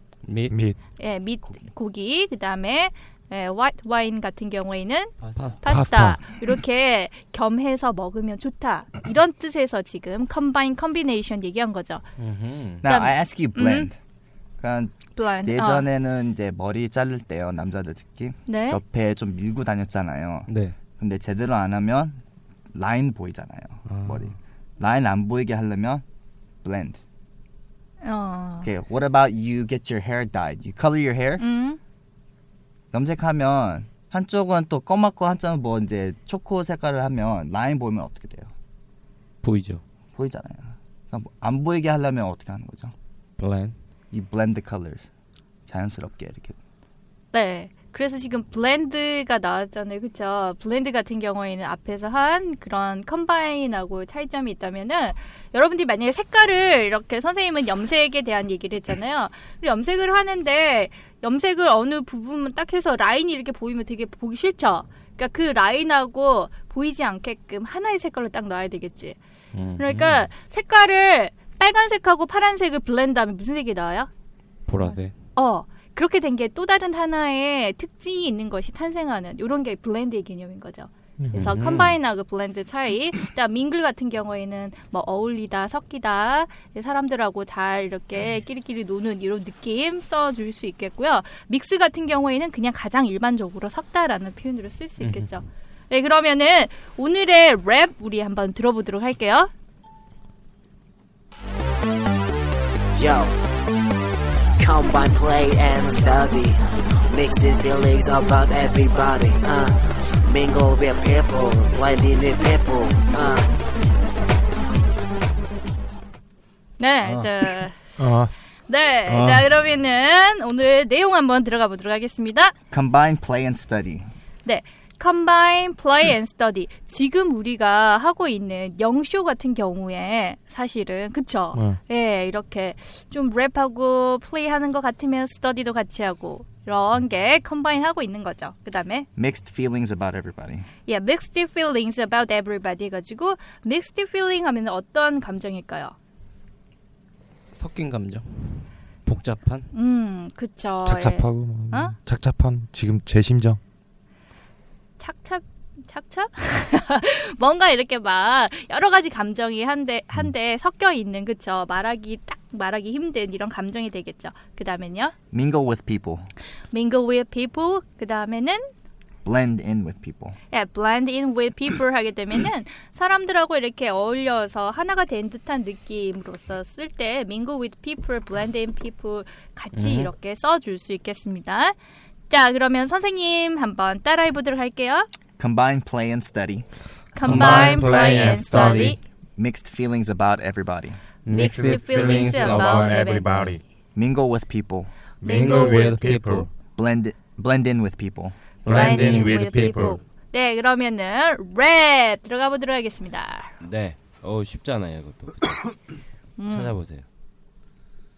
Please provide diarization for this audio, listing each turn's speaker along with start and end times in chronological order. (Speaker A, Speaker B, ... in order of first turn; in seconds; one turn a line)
Speaker A: 0.2-0.6
Speaker B: 0.5-0.8
Speaker C: 1.0-12.0
Speaker A: 5.2-5.6
Speaker B: 5.6-6.2
Speaker A: 12.2-12.8
Speaker D: 12.8-13.9
Speaker C: 12.8-13.9
Speaker D: 14.6-22.2
Speaker C: 15.1-15.9
Speaker C: 18.5-18.8
Speaker A: 20.5-20.8
Speaker D: 22.7-26.0
Speaker A: 23.9-24.3
Speaker D: 26.6-27.0
Speaker C: 28.0-28.7
Speaker D: 28.6-31.4
Speaker C: 31.4-31.8
Speaker D: 32.9-38.5
Speaker A: 39.4-39.8
Speaker D: 40.1-42.9
Speaker A: 43.4-43.8
Speaker D: 44.1-45.1
Speaker D: 45.7-46.6
Speaker C: 47.3-69.2
Speaker A: 69.5-70.3
Speaker C: 69.8-74.1
Speaker A: 74.7-75.1
Speaker C: 75.3-99.5
Speaker B: 81.2-81.9
Speaker A: 81.3-81.9
Speaker A: 95.0-95.4
Speaker E: 103.0-103.3
Speaker E: 104.6-106.5
Speaker E: 107.1-109.7
Speaker E: 110.3-113.3
Speaker C: 116.8-117.8
Speaker B: 118.0-118.3
Speaker C: 118.7-122.5
Speaker A: 119.1-119.5
Speaker D: 122.7-124.1
Speaker C: 124.4-139.1
Speaker B: 131.5-131.8
Speaker D: 139.2-140.7
Speaker C: 140.8-145.9
Speaker A: 147.5-149.7
Speaker C: 149.7-152.0
Speaker B: 150.8-153.6
Speaker C: 155.0-165.1
Speaker D: 165.3-166.3
Speaker C: 166.7-168.6
Speaker D: 169.2-170.3
Speaker C: 170.5-181.8
Speaker A: 179.7-180.1
Speaker C: 182.3-185.1
Speaker D: 185.4-186.7
Speaker C: 187.1-189.0
Speaker A: 187.2-189.0
Speaker B: 187.3-188.9
Speaker D: 189.4-191.0
Speaker A: 191.2-192.6
Speaker B: 191.3-193.6
Speaker C: 191.3-193.6
Speaker D: 193.9-194.9
Speaker B: 195.2-196.4
Speaker C: 195.2-196.4
Speaker A: 195.2-196.4
Speaker D: 196.3-199.1
Speaker A: 198.6-200.0
Speaker C: 198.7-203.5
Speaker B: 198.7-200.0
Speaker F: 203.6-205.8
Speaker C: 206.4-206.8
Speaker F: 206.4-207.0